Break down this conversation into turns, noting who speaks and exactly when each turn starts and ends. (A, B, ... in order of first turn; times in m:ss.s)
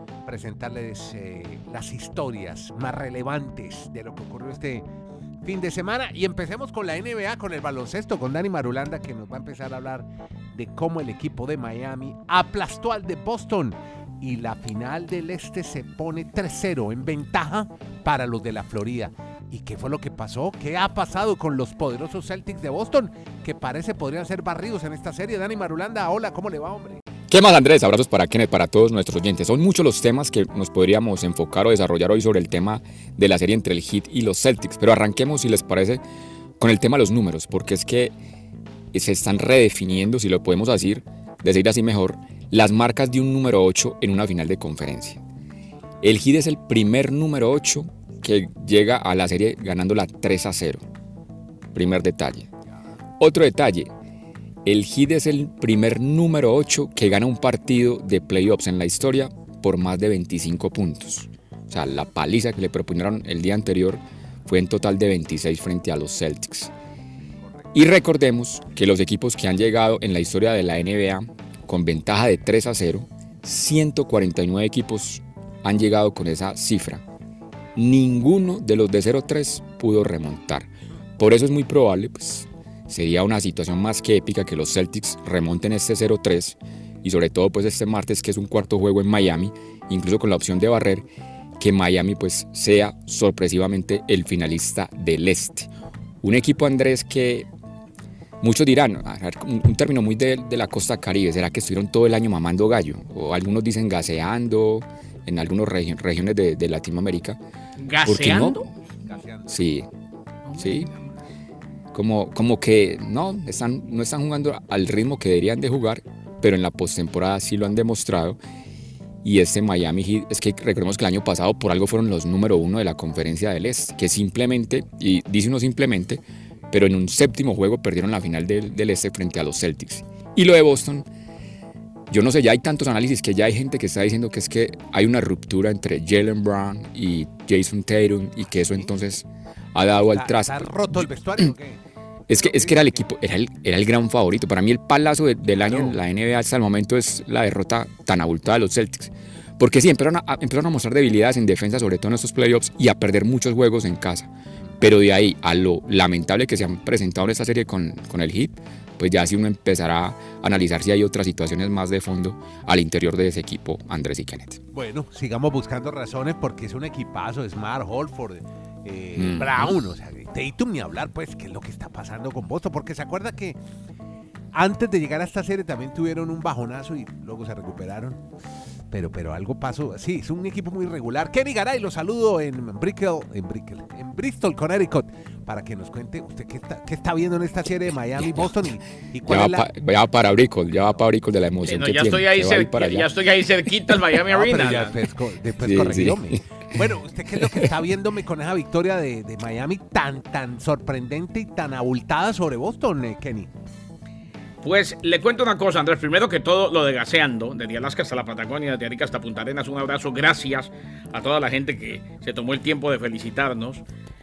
0:00.3-0:04.9 A
0:05.4-0:27.0 A
0:27.3-0:36.0 B
0:36.6-0:38.1 B
0:38.9-0:45.2 B
0:46.0-0:50.8 B
0:51.7-0:52.5 B
0:53.2-0:53.9 B
0:54.6-1:06.7 B
1:07.7-1:17.0 B
1:17.8-1:31.1 B
1:31.6-1:35.7 B
1:36.2-1:37.5 B
1:38.4-1:47.4 B
1:47.8-1:48.7 C
1:48.0-1:48.6 B
1:49.0-1:49.6 A
1:49.5-1:49.9 B
1:50.5-1:51.0 C
1:50.6-1:50.9 B
1:51.9-1:58.4 B
1:59.2-2:11.1 B
2:12.1-2:21.1 B
2:18.6-2:18.9 A
2:20.1-2:23.0 A
2:22.3-2:44.6 B
2:25.6-2:26.0 A
2:44.7-2:53.6 A
2:49.2-2:49.8 B
2:54.5-2:58.2 A
2:58.9-3:09.7 A
3:08.2-3:08.5 B
3:09.2-3:13.1 B
3:11.6-3:15.0 C
3:14.3-3:23.5 A
3:15.6-3:16.8 B
3:17.4-3:17.7 B
3:24.6-3:33.8 C